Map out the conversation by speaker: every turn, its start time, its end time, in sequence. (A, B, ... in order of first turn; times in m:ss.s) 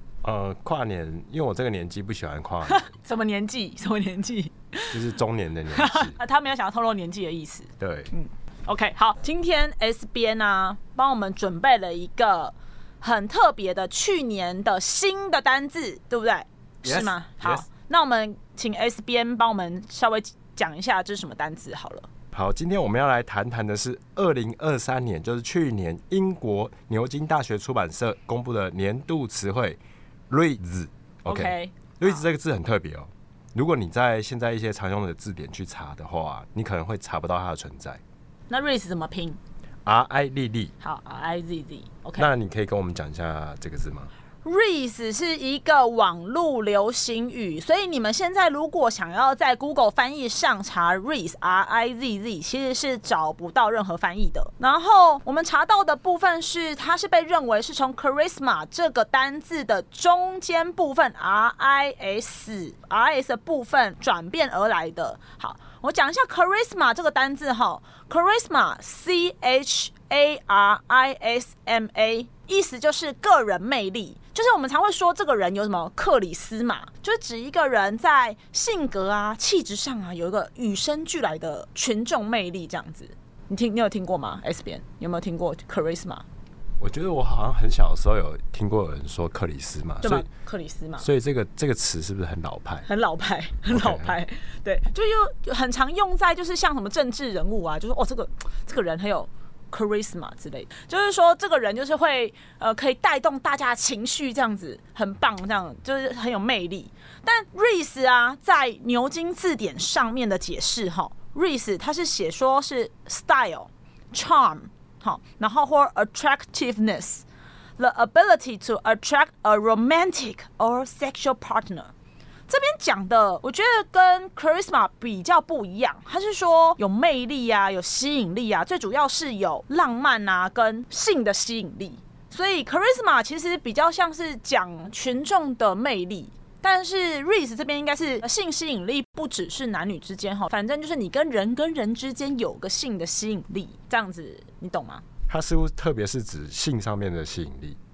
0:00.2-0:02.9 A
0:02.7-0:05.2 B
0:04.9-0:06.2 A
0:05.7-0:22.1 B
0:07.8-0:08.1 A
0:16.8-0:17.7 A
0:22.3-0:38.0 A
0:31.3-0:32.2 B
0:38.5-0:39.4 B
0:39.9-0:40.7 A
0:40.8-0:42.3 B
0:42.2-0:44.1 A
0:44.4-1:26.2 B
1:26.8-1:30.3 A
1:30.0-1:31.1 B
1:31.0-1:32.9 A
1:32.9-1:57.2 B
1:33.7-1:34.2 A
1:57.8-2:01.9 B
2:02.5-2:25.1 B
2:25.3-2:27.8 A